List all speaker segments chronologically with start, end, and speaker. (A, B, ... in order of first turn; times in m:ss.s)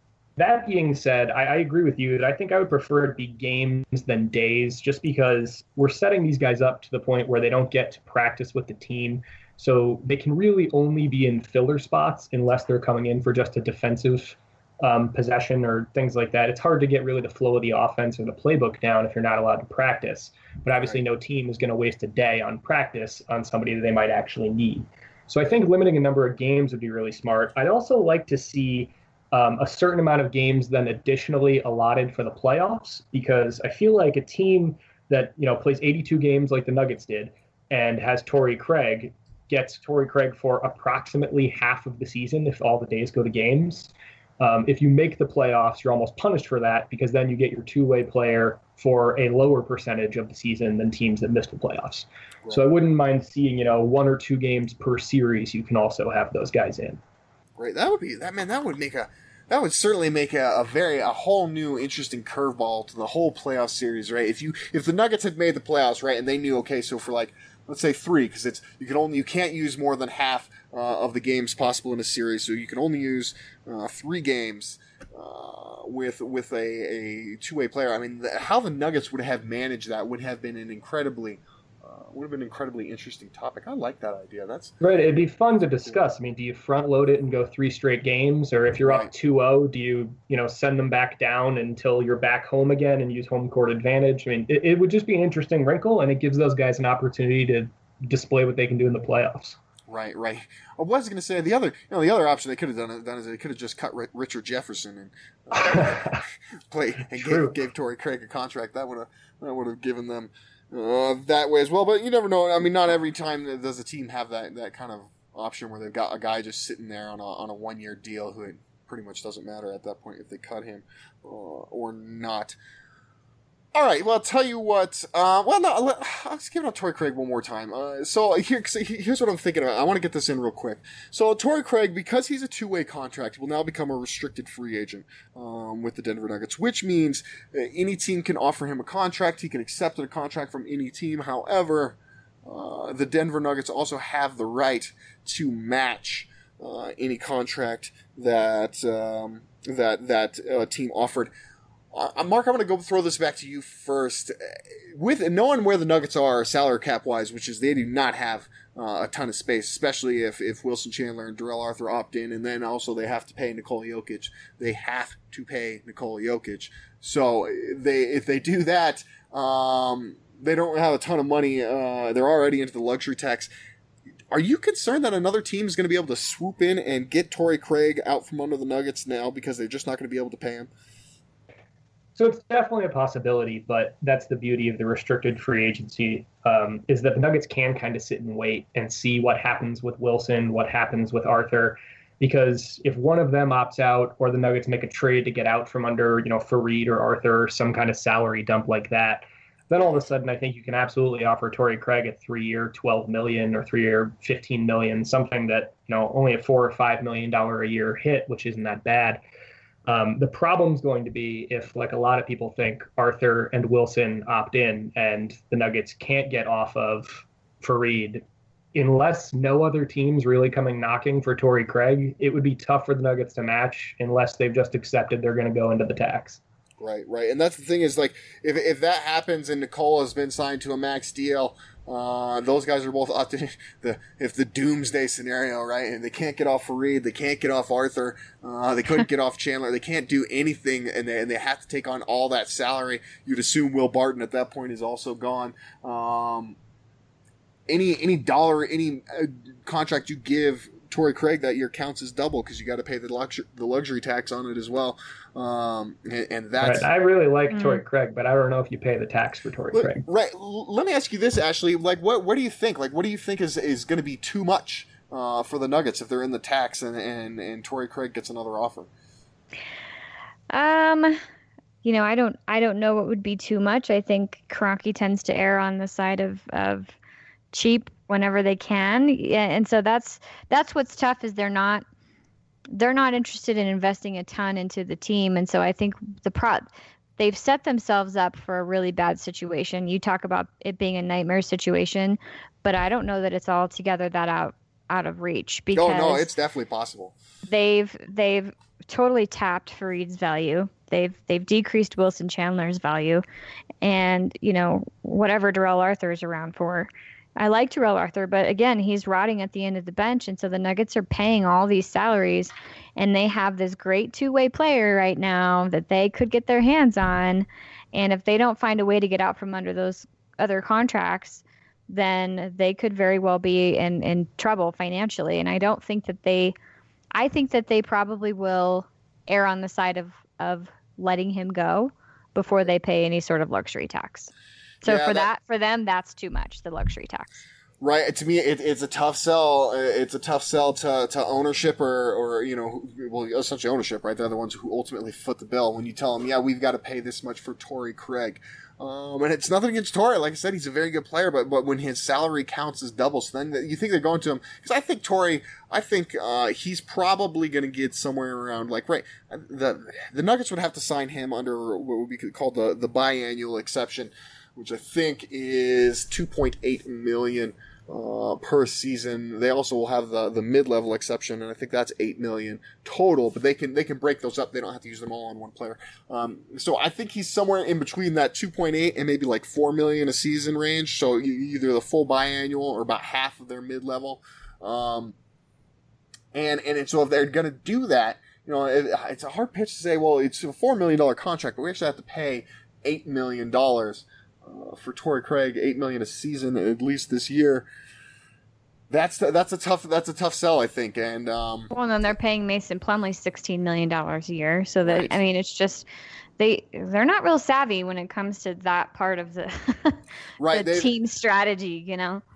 0:00.4-0:57.0 A
0:57.6-1:24.7 B
1:24.8-1:39.6 A
1:28.8-1:29.1 B
1:39.9-2:02.6 B
1:45.5-1:46.2 A
1:47.1-1:47.6 A
2:03.7-2:31.3 B
2:31.9-2:53.5 B
2:54.3-3:00.7 B
3:02.2-3:29.2 A
3:29.9-3:38.2 A
3:38.7-3:46.4 A
3:46.8-4:06.6 B
4:07.7-4:16.9 B
4:16.6-4:20.1 A
4:17.5-4:17.8 C
4:19.7-4:28.9 B
4:30.5-4:31.2 C
4:31.8-4:36.9 C
4:37.5-4:41.8 C
4:42.7-4:56.3 C
4:55.7-4:57.1 B
4:57.5-5:03.2 C
5:03.8-5:26.6 C
5:27.1-5:34.3 C
5:34.8-5:35.3 B
5:34.8-5:37.3 C
5:37.8-6:25.2 B
6:26.3-6:37.7 B
6:38.9-6:41.7 B
6:41.7-6:45.9 C
6:44.8-6:45.2 B
6:46.4-6:50.0 C
6:50.4-6:50.9 B
6:50.5-6:52.2 C